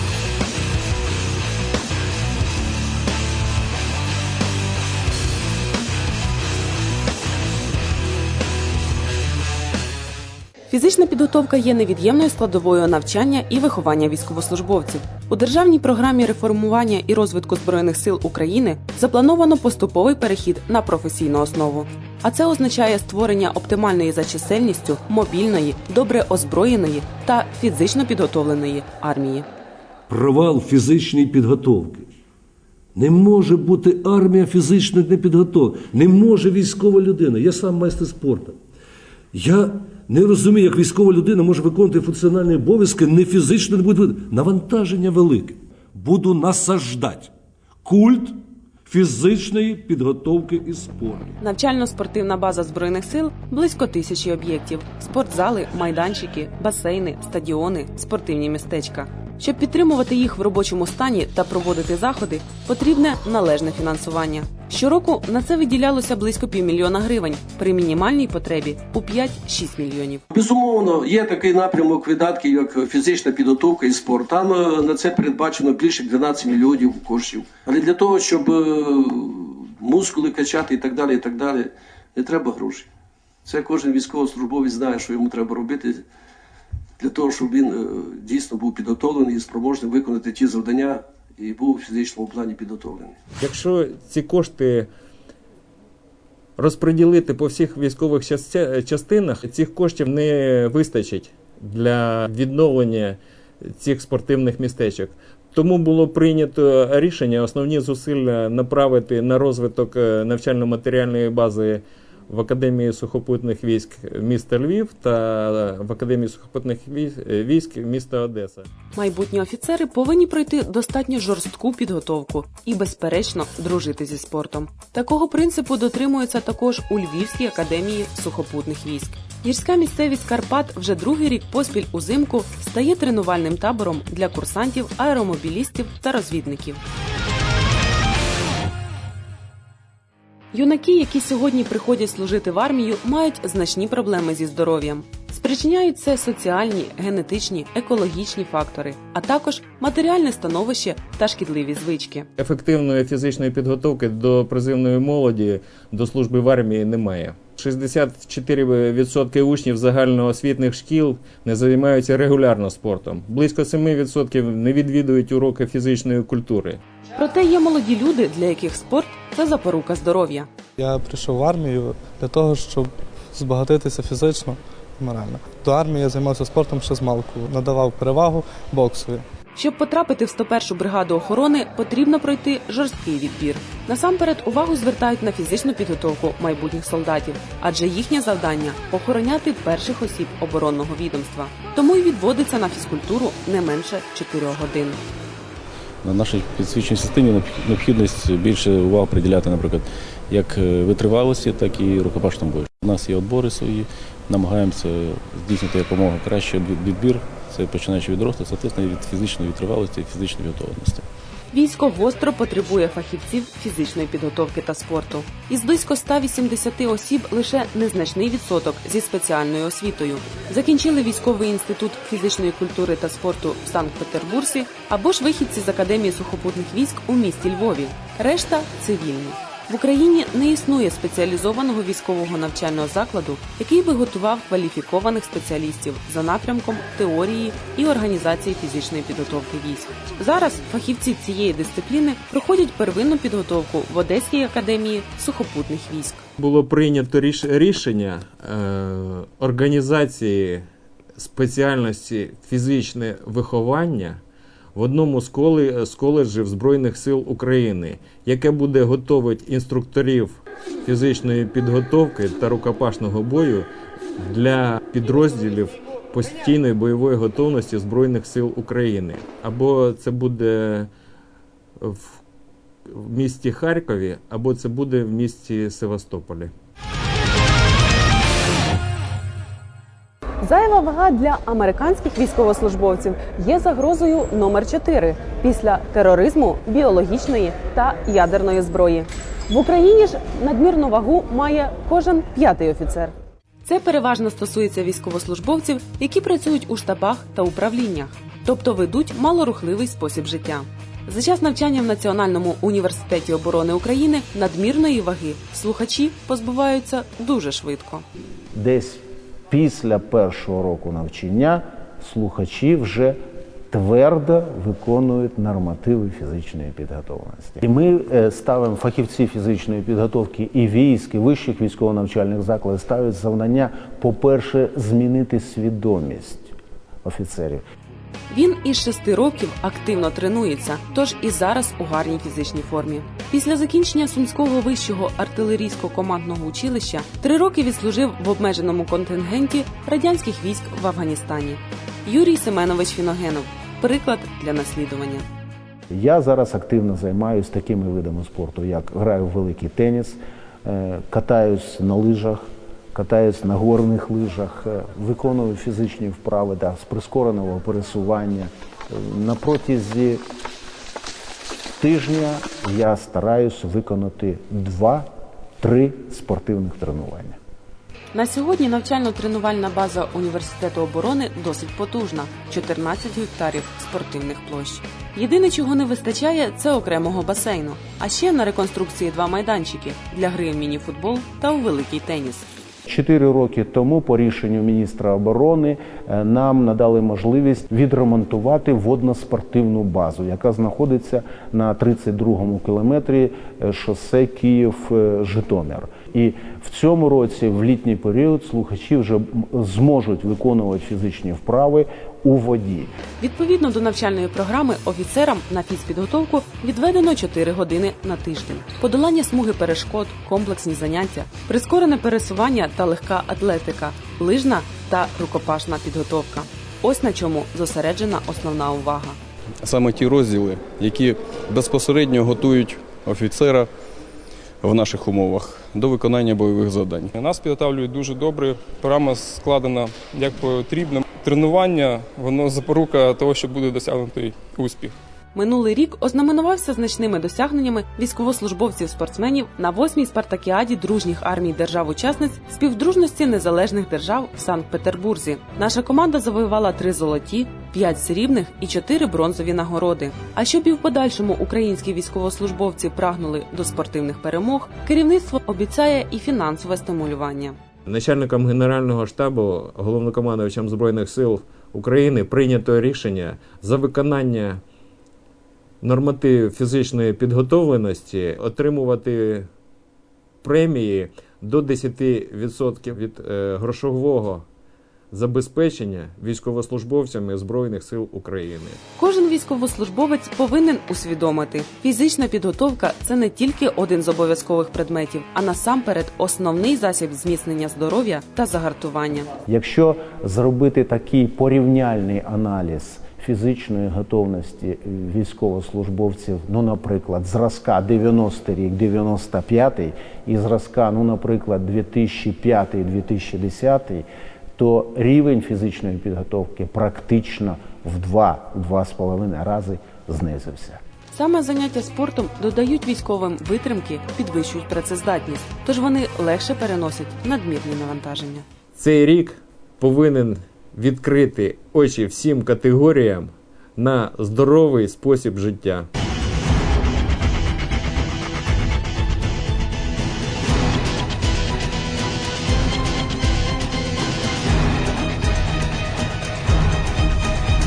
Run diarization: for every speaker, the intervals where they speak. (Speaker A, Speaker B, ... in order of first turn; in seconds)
Speaker A: 10.7-29.5, 51.4-70.2, 118.9-136.8, 140.5-152.3, 167.2-170.5, 179.6-195.0, 211.5-246.2, 280.4-293.1, 293.6-308.1, 328.3-345.2, 368.1-382.5, 403.2-419.2, 435.3-457.6, 479.0-489.3, 511.1-518.5
Speaker B: 30.1-32.1, 33.0-38.6, 39.3-47.3, 47.8-51.4
Speaker C: 70.4-81.7, 82.2-82.9, 83.5-85.9, 87.0-93.2
Speaker D: 93.4-94.9, 96.6-118.7, 152.4-166.8, 246.4-250.6, 251.2-254.2, 254.8-270.9, 271.8-272.2, 272.9-276.5, 457.9-464.6, 465.8-469.5, 470.4-474.4, 475.1-478.8, 518.8-525.9
Speaker E: 170.8-179.2
Speaker F: 196.0-211.1
Speaker G: 308.5-313.2, 313.7-326.5, 327.0-327.6, 345.9-352.4, 352.9-360.2, 361.8-365.1, 365.6-367.4, 382.9-402.9, 489.5-504.1, 504.6-510.8
Speaker H: 419.6-423.7, 424.6-427.1
Speaker I: 427.1-434.9